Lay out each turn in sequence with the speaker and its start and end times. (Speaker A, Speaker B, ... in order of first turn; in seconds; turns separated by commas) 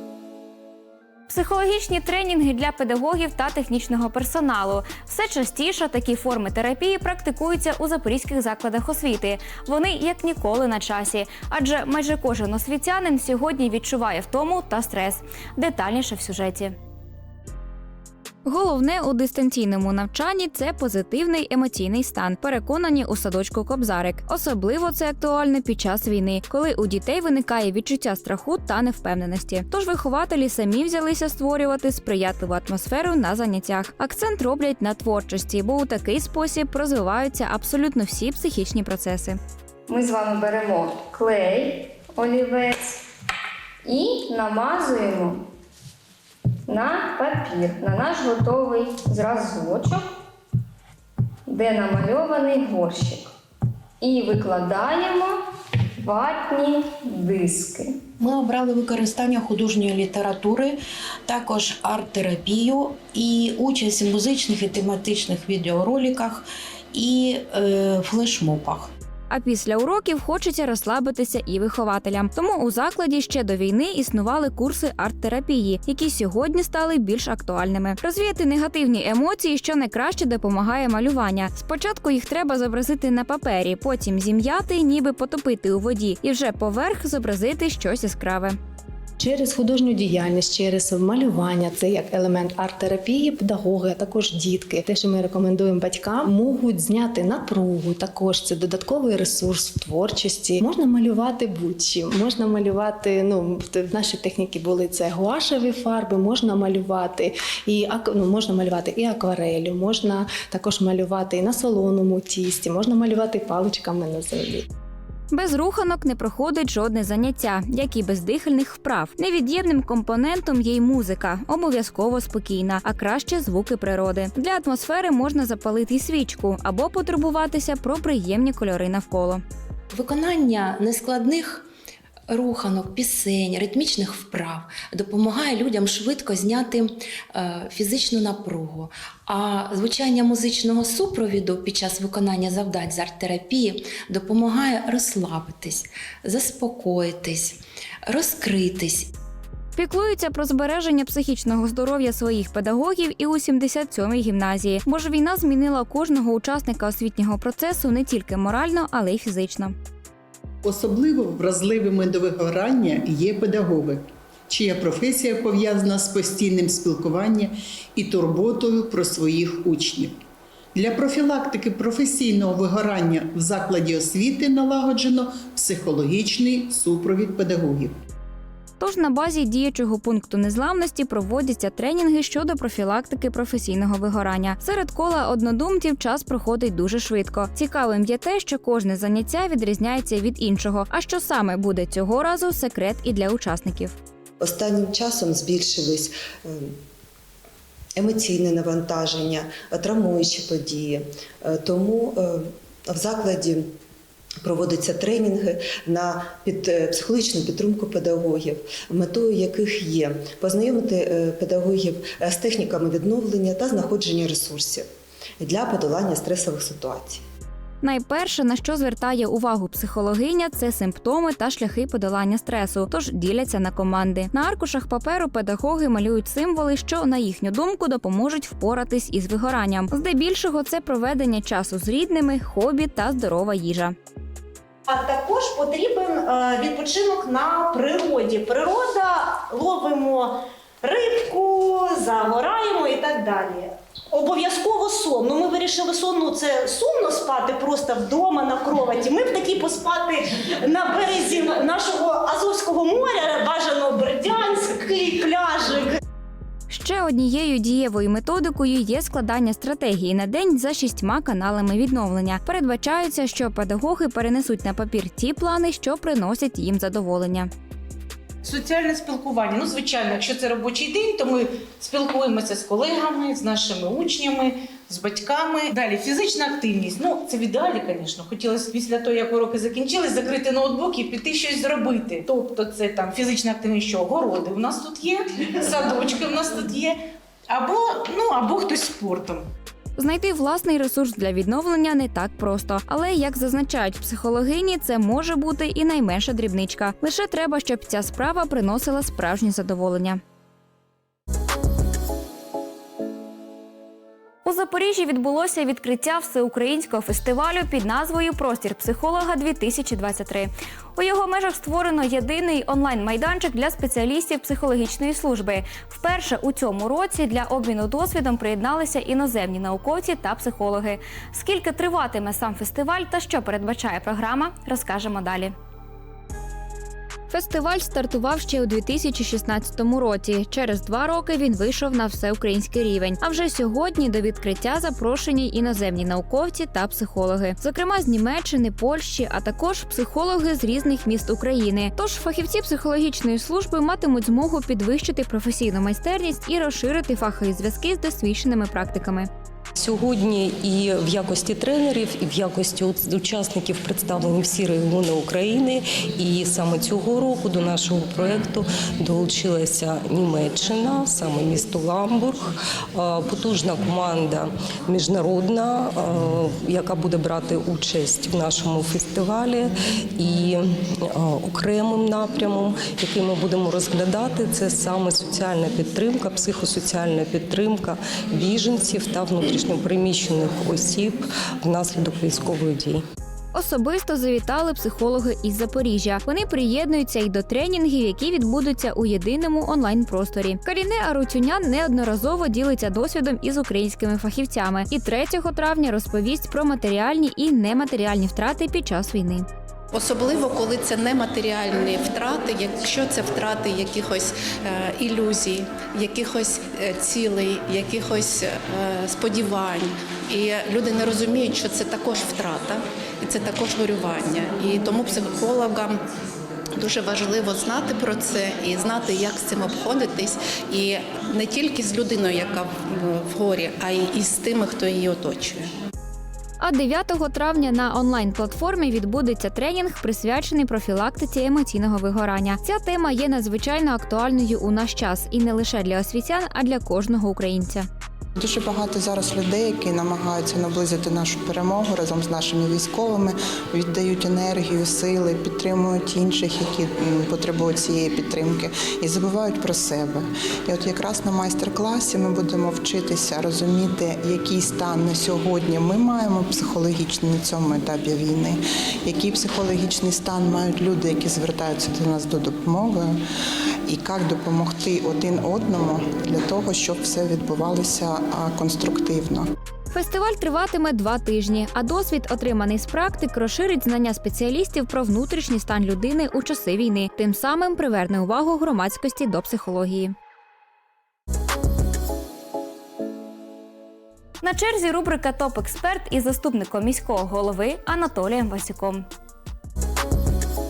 Speaker A: 1.3-16.8, Speaker A: 18.4-39.4, Speaker B: 39.9-42.7, Speaker B: 43.9-45.4, Speaker B: 46.7-50.0, Speaker B: 51.5-53.2, Speaker B: 54.0-55.3, Speaker B: 56.1-57.8, Speaker C: 58.2-68.9, Speaker A: 69.3-88.6, Speaker D: 89.2-114.7, Speaker A: 115.3-129.4, Speaker E: 129.9-131.7, Speaker E: 132.3-149.1, Speaker A: 149.8-159.8, Speaker F: 160.6-170.2, Speaker F: 170.8-177.9, Speaker A: 178.8-193.9, Speaker G: 194.4-196.8, Speaker G: 198.0-203.7, Speaker G: 204.4-214.9, Speaker G: 215.4-217.2, Speaker A: 217.8-233.9, Speaker H: 234.9-256.0, Speaker A: 256.7-267.5, Speaker I: 268.4-286.9, Speaker I: 287.5-289.4, Speaker A: 290.0-300.2, Speaker A: 304.4-325.5, Speaker A: 327.3-349.3, Speaker J: 349.8-383.0, Speaker A: 383.5-399.5, Speaker K: 399.9-416.0, Speaker K: 416.8-425.7, Speaker A: 426.6-437.9, Speaker L: 438.4-463.2, Speaker L: 463.9-469.5, Speaker A: 469.9-480.1, Speaker A: 484.4-489.1